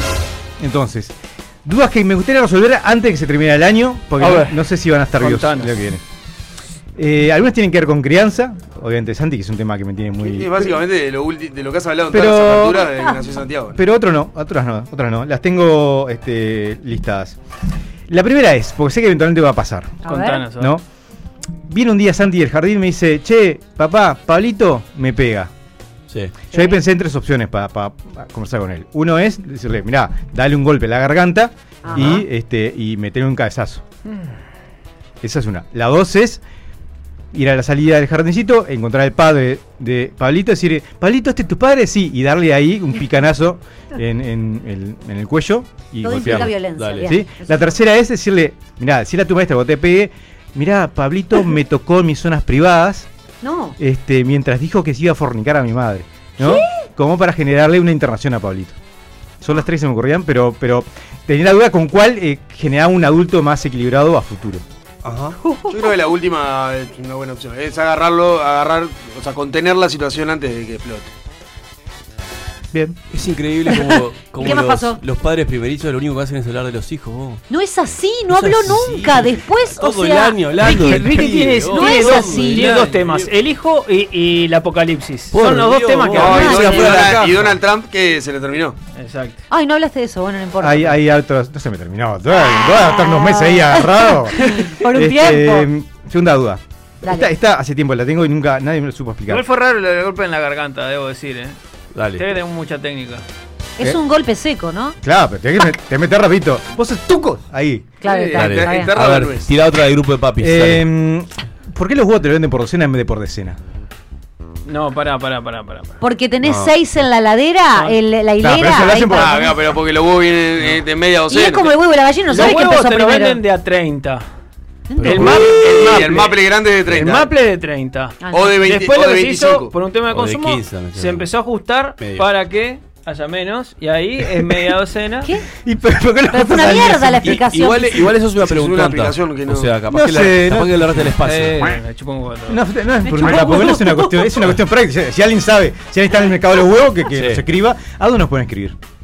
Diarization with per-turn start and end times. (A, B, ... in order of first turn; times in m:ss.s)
0:00.6-0:01.1 A
0:01.6-0:06.0 A
0:04.2-0:04.6 B
0:05.2-0:05.7 B
0:07.0-0:10.8 A
0:10.2-0:13.8 C
0:12.1-0:12.9 A
0:13.8-0:17.4 A
0:18.1-0:20.8 A
0:20.0-0:20.5 D
0:20.0-0:20.7 B
0:21.7-0:25.5 A
0:26.1-0:26.4 E
0:26.5-0:26.8 D
0:26.5-0:33.8 A
0:31.8-0:32.2 D
0:35.2-0:36.4 A
0:37.3-0:53.1 A
0:46.0-0:47.8 D
0:46.2-0:47.2 E
0:53.4-0:53.8 D
0:53.8-0:58.8 A
0:56.4-0:56.7 D
0:59.4-1:04.6 A
1:05.0-1:05.4 E
1:05.4-1:05.7 D
1:05.7-1:11.1 C
1:13.1-1:17.4 E
1:14.4-1:15.0 D
1:17.5-1:21.0 D
1:18.3-1:23.3 E
1:20.6-1:26.7 B
1:21.7-1:22.7 D
1:25.3-1:27.6 E
1:26.2-1:28.8 C
1:26.2-1:27.2 D
1:29.0-1:29.4 B
1:29.5-1:31.0 D
1:30.6-1:39.4 A
1:32.6-1:35.7 D
1:37.0-1:37.3 D
1:39.3-1:41.6 B
1:41.9-1:42.3 E
1:42.2-1:43.2 B
1:43.8-1:45.0 D
1:45.0-1:47.9 A
1:48.0-1:48.9 D
1:48.0-1:49.5 C
1:48.4-1:50.8 E
1:50.4-1:53.6 A
1:54.7-1:56.0 B
1:56.0-1:59.5 D
1:56.4-1:56.7 E
1:58.4-1:59.5 A
1:59.1-2:01.7 C
2:01.3-2:03.4 D
2:02.3-2:04.2 B
2:04.9-2:05.3 D
2:05.0-2:05.6 E
2:05.0-2:15.3 B
2:05.3-2:07.3 C
2:08.2-2:08.6 D
2:08.3-2:09.7 C
2:10.1-2:11.3 E
2:12.0-2:12.3 E
2:15.7-2:17.4 A
2:16.3-2:18.1 D
2:16.6-2:21.8 E
2:18.4-2:19.7 C
2:19.9-2:21.0 A
2:21.2-2:22.6 B
2:22.5-2:28.8 A
2:23.1-2:24.0 D
2:27.1-2:27.4 E